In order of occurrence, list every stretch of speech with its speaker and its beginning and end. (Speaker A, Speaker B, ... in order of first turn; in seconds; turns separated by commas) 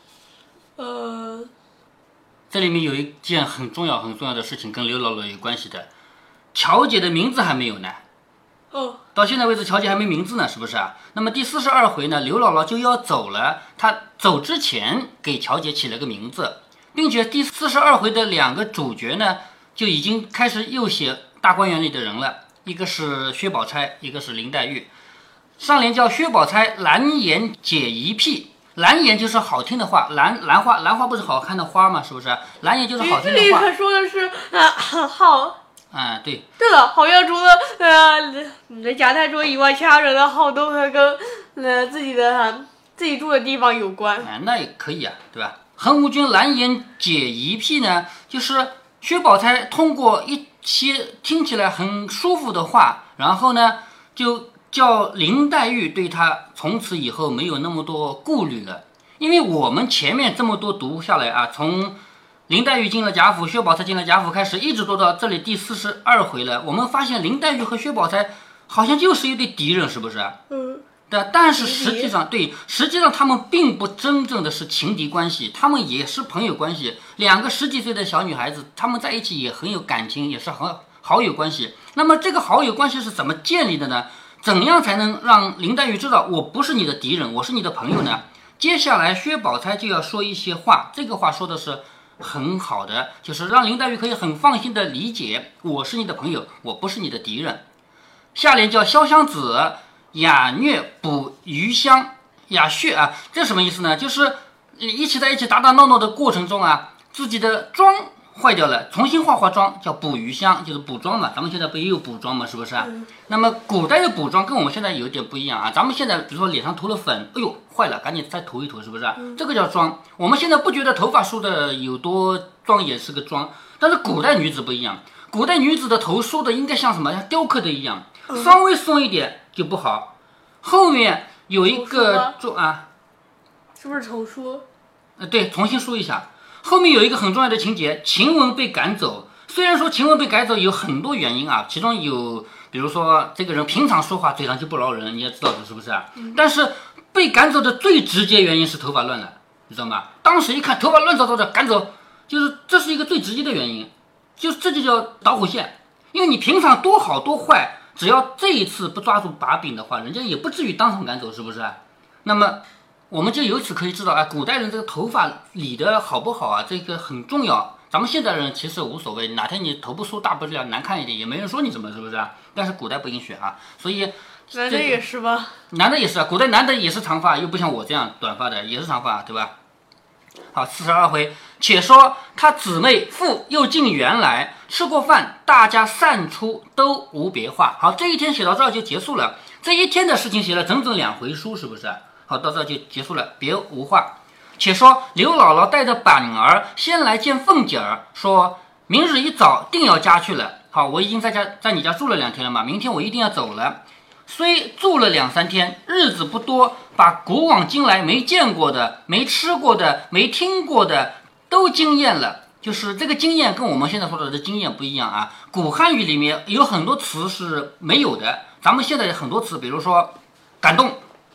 Speaker A: 0.8-1.5, Speaker B: 2.5-5.9, Speaker B: 6.5-8.0, Speaker A: 8.7-9.0, Speaker B: 9.1-24.9, Speaker B: 25.6-33.7, Speaker A: 33.0-35.6, Speaker B: 35.9-36.4, Speaker A: 36.6-44.3, Speaker B: 44.2-62.0, Speaker B: 62.5-70.4, Speaker A: 70.5-70.8, Speaker B: 71.1-97.6, Speaker A: 71.6-72.1, Speaker B: 98.3-132.8, Speaker A: 131.7-132.3, Speaker A: 133.8-134.6, Speaker B: 135.2-175.0, Speaker A: 174.5-175.5, Speaker B: 175.7-179.5, Speaker B: 180.5-221.0